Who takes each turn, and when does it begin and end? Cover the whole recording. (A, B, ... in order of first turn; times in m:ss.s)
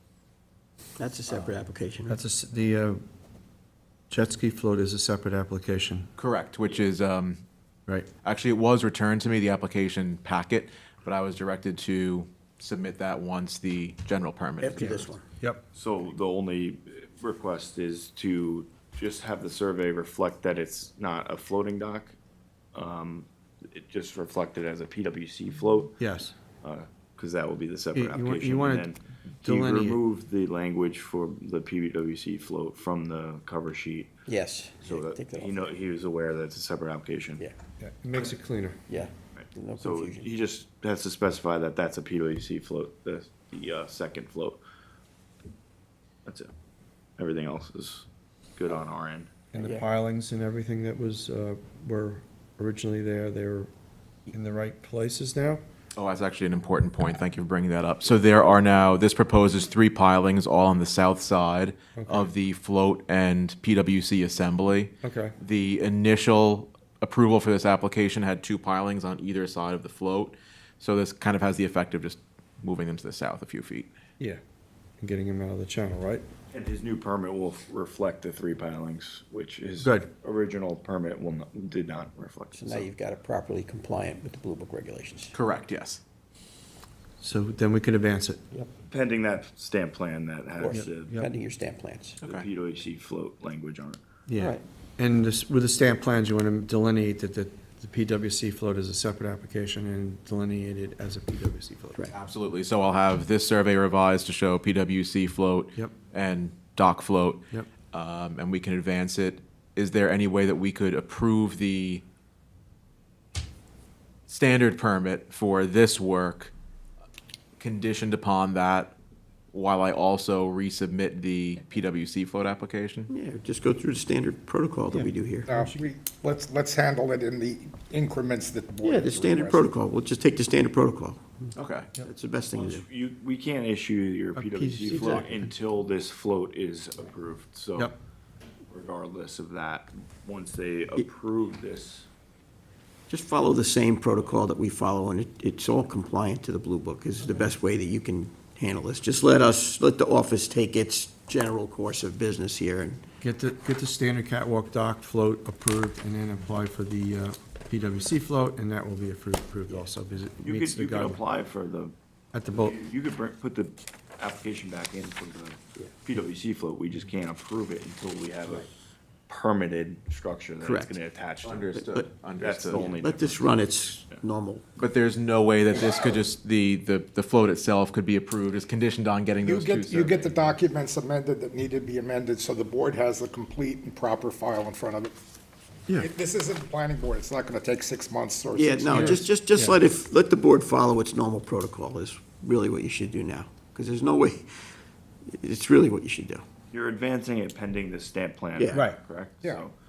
0:01.0-0:02.2 A
0:01.3-0:01.6 B
0:02.1-0:03.0 B
0:04.1-0:06.1 B
0:06.2-0:07.4 C
0:08.2-0:15.1 C
0:14.6-0:15.3 A
0:14.8-0:15.6 B
0:15.7-0:22.2 D
0:22.7-0:26.0 D
0:26.0-0:26.3 B
0:26.6-0:34.1 D
0:27.9-0:28.9 B
0:29.4-0:30.0 B
0:34.3-0:35.6 A
0:34.8-0:37.4 D
0:37.8-0:38.8 B
0:38.9-0:40.3 A
0:39.3-0:44.6 D
0:46.2-0:46.5 D
0:47.2-0:49.3 D
0:49.5-0:53.7 B
0:49.6-0:49.8 A
0:54.3-0:55.6 B
0:56.0-1:13.9 C
1:01.9-1:02.3 B
1:05.0-1:05.3 B
1:15.0-1:16.3 B
1:16.5-1:22.9 D
1:19.8-1:20.1 B
1:22.5-1:25.3 A
1:25.3-1:26.0 C
1:27.2-1:28.6 B
1:28.9-1:31.2 D
1:30.6-1:32.2 A
1:30.7-1:31.3 B
1:32.2-1:32.5 C
1:32.2-1:34.0 D
1:34.3-1:42.1 B
1:34.4-1:34.6 A
1:42.1-1:52.0 C
1:54.3-1:56.5 C
1:57.6-1:58.9 C
1:59.5-2:03.1 C
2:03.1-2:05.5 A
2:04.9-2:05.8 B
2:05.5-2:09.7 E
2:08.8-2:11.5 A
2:11.5-2:11.9 C
2:12.0-2:12.8 A
2:12.5-2:17.9 D
2:14.3-2:15.5 B
2:18.7-2:22.1 D
2:23.1-2:33.0 A
2:33.2-2:41.2 B
2:40.4-2:41.9 D
2:42.3-2:42.8 B
2:42.5-2:48.7 D
2:49.3-2:51.7 D
2:50.6-2:51.0 A
2:51.4-2:52.8 C
2:51.7-2:52.1 A
2:52.4-2:53.6 D
2:52.7-2:54.6 A
2:54.8-3:00.4 C
2:59.4-3:05.1 E
3:05.9-3:09.2 E
3:08.5-3:14.7 A
3:08.9-3:09.8 B
3:15.2-3:16.4 A
3:16.7-3:19.7 D
3:18.5-3:18.9 A
3:18.7-3:19.0 B